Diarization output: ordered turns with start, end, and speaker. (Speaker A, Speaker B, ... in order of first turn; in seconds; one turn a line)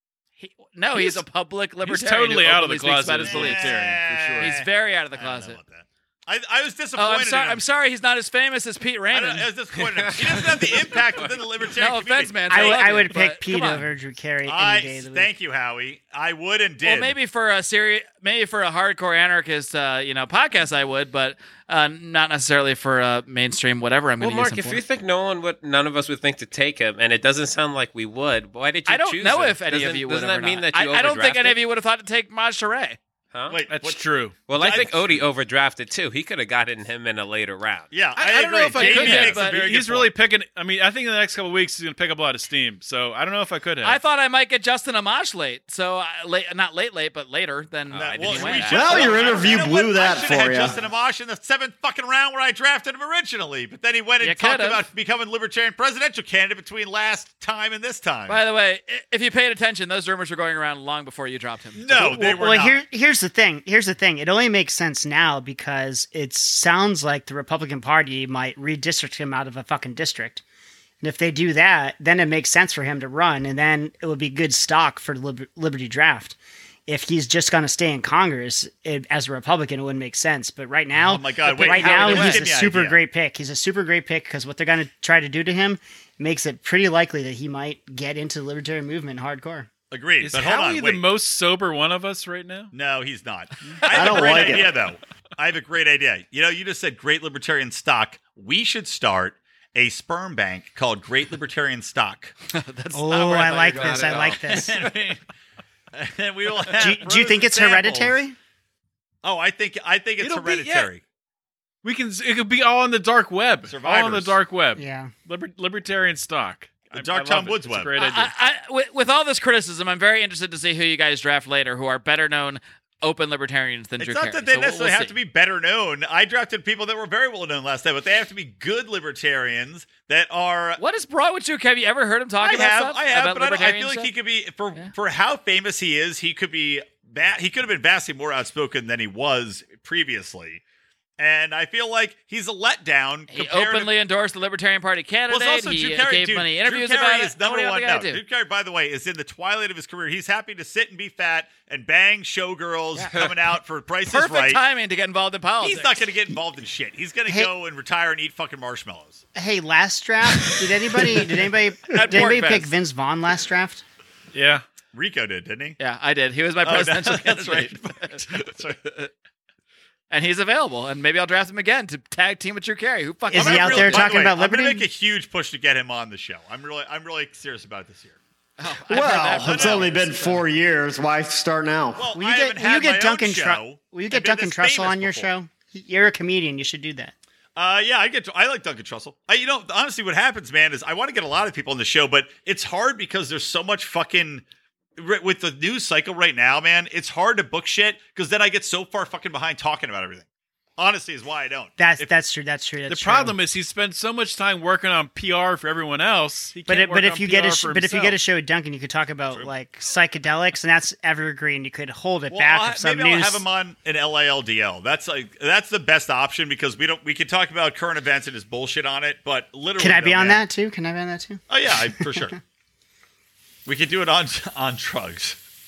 Speaker A: 0.4-3.7
Speaker B: 0.9-1.2
Speaker B: 1.8-4.5
Speaker C: 3.2-7.6
Speaker A: 4.4-5.6
Speaker A: 7.0-9.5
Speaker C: 9.1-12.9
Speaker D: 10.3-11.2
Speaker A: 11.7-13.8
Speaker E: 12.5-15.3
Speaker C: 14.4-17.1
Speaker A: 16.8-24.8
Speaker D: 24.2-31.6
Speaker A: 28.9-33.0
Speaker D: 33.3-33.6
Speaker C: 33.5-34.0
Speaker B: 33.7-34.4
Speaker D: 34.5-38.0
Speaker C: 34.5-35.1
Speaker C: 37.9-40.1
Speaker B: 38.1-44.0
Speaker A: 38.7-39.6
Speaker A: 43.8-49.5
Speaker C: 47.9-58.4
Speaker B: 48.3-48.6
Speaker F: 48.7-50.8
Speaker A: 54.2-54.8
Speaker A: 58.3-61.8
Speaker C: 61.8-62.8
Speaker E: 61.9-70.4
Speaker E: 71.0-76.3
Speaker E: 76.9-89.7
Speaker C: 81.0-83.0
Speaker A: 81.7-82.4
Speaker B: 81.7-82.2
Speaker C: 89.9-91.0
Speaker B: 90.2-92.7
Speaker C: 92.7-102.3
Speaker F: 93.9-94.7
Speaker A: 102.5-104.7
Speaker E: 102.9-104.8
Speaker C: 103.8-105.2
Speaker C: 105.9-108.2
Speaker E: 106.8-108.3
Speaker C: 109.2-111.0
Speaker B: 110.2-110.9
Speaker B: 111.8-118.3
Speaker C: 113.7-114.4
Speaker E: 114.8-115.1
Speaker C: 116.9-117.9
Speaker A: 118.0-125.2
Speaker C: 124.0-130.8
Speaker A: 130.8-134.1
Speaker C: 132.4-140.6
Speaker C: 141.2-143.9
Speaker A: 143.3-148.2
Speaker C: 145.3-154.6
Speaker A: 152.9-153.2
Speaker A: 154.1-156.0
Speaker C: 155.6-159.2
Speaker E: 159.3-163.8
Speaker A: 161.9-162.7
Speaker B: 164.3-164.6
Speaker C: 164.9-165.8
Speaker A: 165.8-168.2
Speaker C: 166.6-169.0
Speaker A: 170.1-174.1
Speaker E: 173.3-174.8
Speaker C: 173.3-178.2
Speaker A: 178.6-180.4
Speaker F: 178.9-182.1
Speaker C: 179.1-179.9
Speaker C: 181.9-185.3
Speaker E: 182.2-187.1
Speaker C: 187.6-194.4
Speaker C: 195.0-200.2
Speaker C: 200.8-201.8
Speaker E: 201.8-203.4
Speaker B: 202.9-208.2
Speaker E: 206.7-213.4
Speaker C: 212.3-220.4
Speaker E: 219.8-221.4
Speaker C: 221.5-222.4
Speaker E: 222.0-222.3
Speaker C: 223.7-225.3